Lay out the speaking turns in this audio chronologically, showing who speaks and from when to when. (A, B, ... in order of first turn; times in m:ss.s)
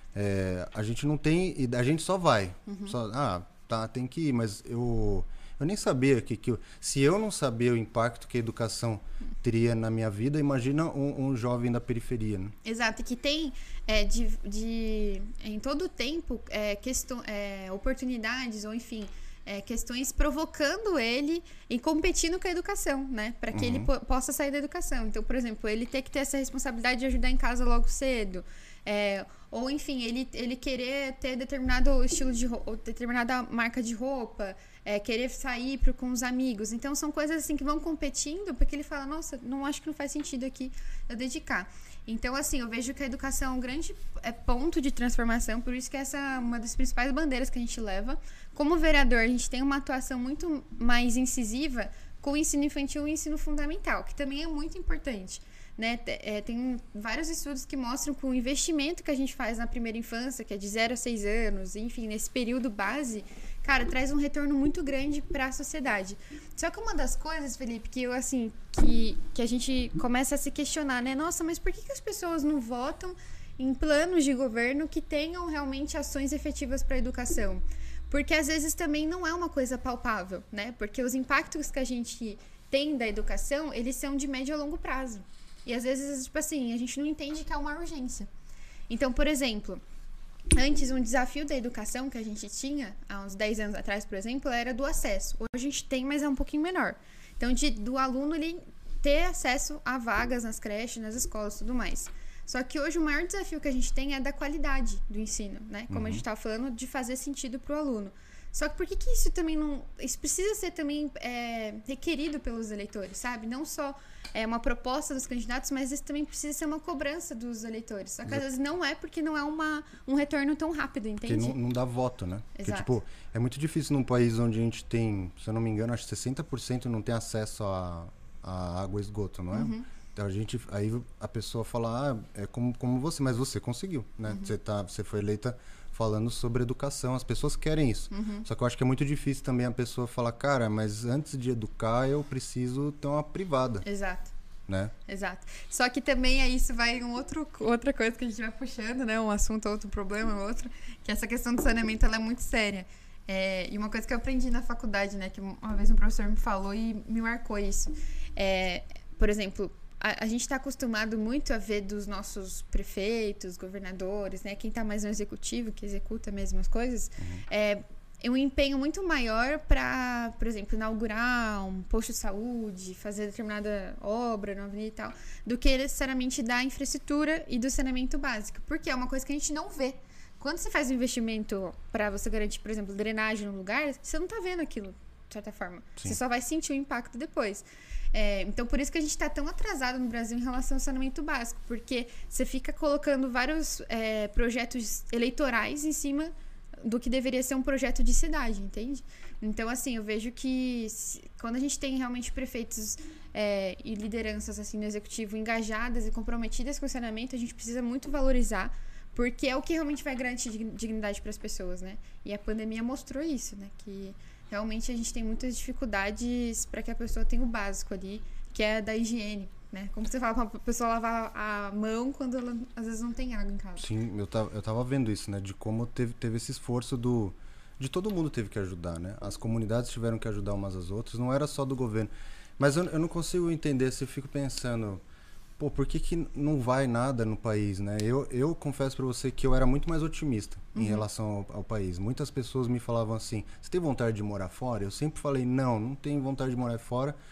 0:00.1-0:12.5 A
0:02.7-0:02.9 B
0:12.6-1:28.3 B
0:23.5-0:23.9 A
1:28.9-1:29.8 B
1:30.5-2:01.6 B
1:45.9-1:46.2 A
2:01.2-2:23.8 A
2:02.6-2:02.9 B
2:09.5-2:09.9 B
2:14.3-2:14.5 B
2:18.1-2:18.4 B
2:23.8-2:24.3 B
2:24.7-2:24.9 A
2:25.1-3:43.8 B
2:47.2-2:47.4 A
3:43.8-3:55.0 A
3:55.6-4:07.2 A
4:00.7-4:01.0 B